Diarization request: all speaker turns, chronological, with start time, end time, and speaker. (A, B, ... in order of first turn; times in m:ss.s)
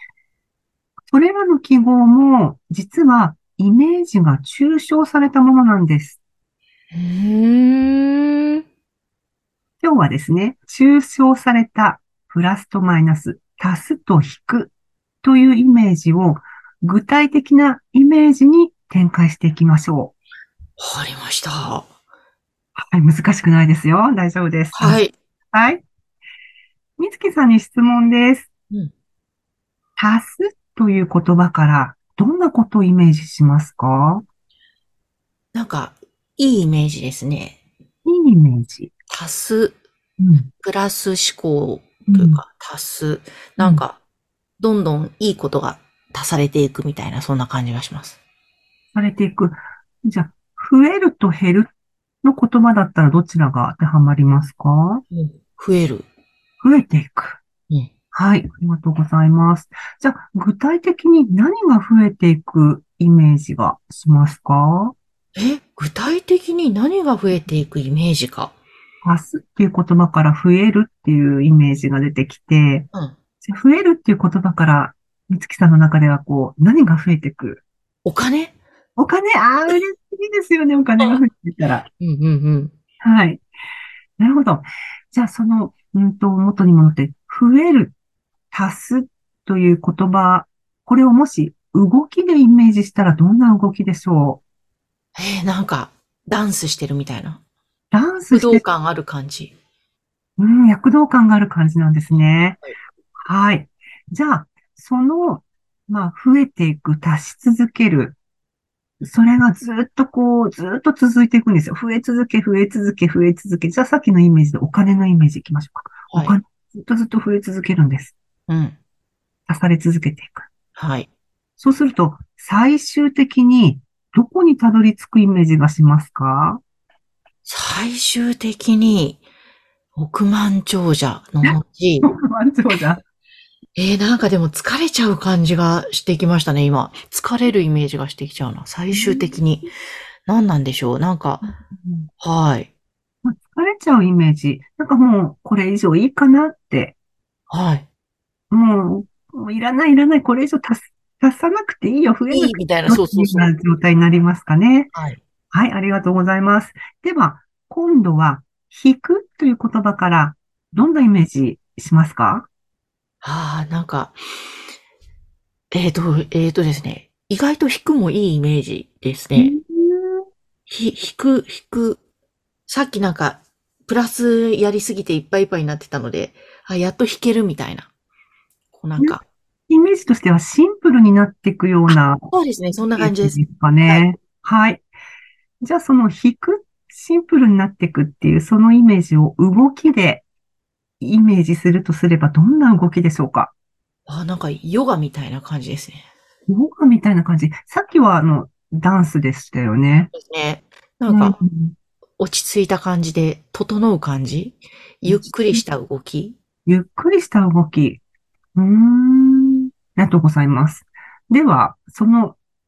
0:01.1-0:06.2 A
0:06.9-0:08.6 B
0:09.8-0:20.2 A
0:20.8-0:21.9 B
0:22.8-0:25.0 A
0:24.8-0:25.1 B
0:25.5-0:25.8 A
0:27.0-0:28.5 A
0:30.0-0:34.2 A
0:35.5-0:37.6 B
0:38.0-0:38.9 A
0:39.1-0:39.8 B
0:40.2-0:40.5 A
0:40.6-0:44.0 B
0:42.1-0:42.4 A
0:44.6-0:48.2 B
0:48.9-0:51.7 A
0:52.2-0:55.0 A
0:55.1-0:56.1 B
0:56.6-0:57.4 A
0:58.1-1:05.0 A
1:05.4-1:08.5 B
1:09.0-1:12.9 A
1:13.4-1:17.6 A
1:18.0-1:18.6 B
1:19.0-1:21.9 A
1:22.0-1:22.7 B
1:23.0-1:23.4 A
1:24.2-1:27.9 A
1:28.5-1:34.4 A
1:35.2-1:37.4 B
1:37.9-1:38.6 A
1:38.3-1:39.5 B
1:40.4-1:42.6 A
1:43.2-1:48.2 A
1:49.0-1:58.2 A
1:56.1-1:56.4 B
1:58.5-1:58.8 B
1:59.5-2:00.5 A
2:00.8-2:01.1 B
2:01.6-2:06.6 A
2:07.4-2:09.2 B
2:10.0-2:12.0 B
2:11.4-2:13.0 A
2:13.8-2:19.7 B
2:18.9-2:19.3 A
2:20.3-2:21.4 B
2:21.4-2:22.1 A
2:22.2-2:22.7 B
2:23.2-2:27.0 A
2:27.5-2:27.9 B
2:28.5-2:34.9 A
2:32.3-2:33.5 B
2:34.9-2:35.2 B
2:35.5-2:42.5 A
2:43.2-2:44.2 B
2:45.7-2:49.5 B
2:49.4-2:50.2 A
2:50.7-2:52.0 B
2:52.7-2:57.9 B
2:58.7-2:59.2 B
2:59.0-3:02.3 A
3:01.9-3:04.0 B
3:03.0-3:04.8 A
3:05.6-3:10.2 A
3:11.0-3:13.5 A
3:14.1-3:16.0 B
3:16.5-3:20.1 A
3:20.1-3:21.3 B
3:21.1-3:21.7 A
3:22.2-3:26.4 B
3:25.1-3:25.6 A
3:26.7-3:28.0 A
3:28.6-3:32.4 A